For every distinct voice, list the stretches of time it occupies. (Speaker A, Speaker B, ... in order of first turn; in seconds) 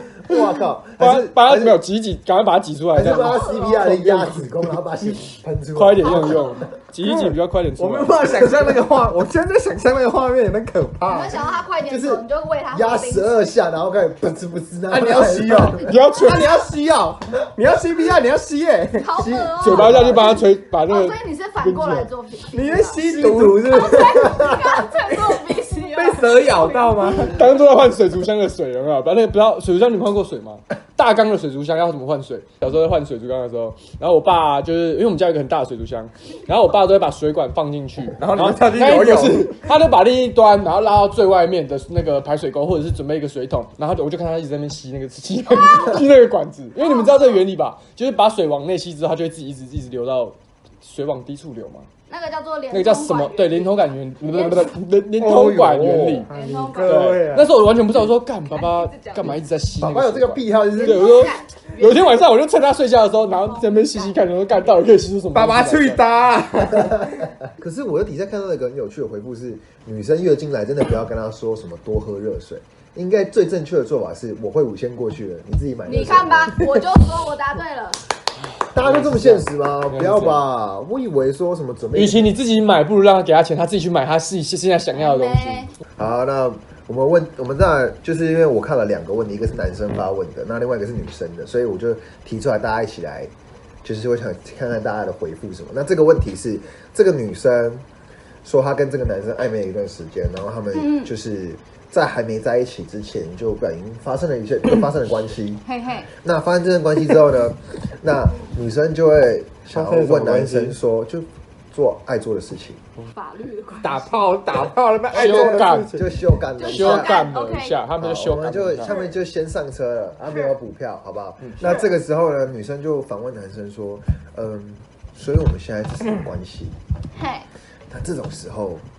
Speaker A: 0.2-1.8, 2.9-6.5, 8.4-8.7, 11.9-15.9, 19.7-20.3, 23.0-24.9, 59.8-61.3, 67.4-76.8, 78.7-82.3, 86.0-93.3, 93.8-97.8, 98.4-105.6, 106.1-112.8, 115.1-117.3, 118.0-126.8, 127.9-128.8
Speaker B: 1.0-4.5, 5.8-8.2, 15.8-16.5, 19.6-22.0, 27.2-51.9, 52.7-56.3, 56.8-66.0, 78.8-80.5, 81.9-85.7, 115.1-115.9, 116.6-118.9
Speaker C: 3.0-3.9, 6.0-6.7, 11.1-13.5, 15.8-16.5, 19.0-20.3, 20.8-23.0, 23.6-27.4, 45.5-46.0, 46.8-47.5, 52.1-54.7, 56.3-57.2, 58.5-59.4, 60.7-62.2, 63.2-64.2, 75.8-78.0, 84.9-85.7, 100.7-101.1, 105.6-106.1, 113.1-114.2, 116.6-117.8, 118.8-119.1, 127.1-127.5
Speaker D: 7.0-11.4, 14.9-20.3, 22.5-24.2, 25.1-27.4, 38.2-39.6, 55.2-57.5, 65.3-67.3, 109.7-110.8, 113.8-116.2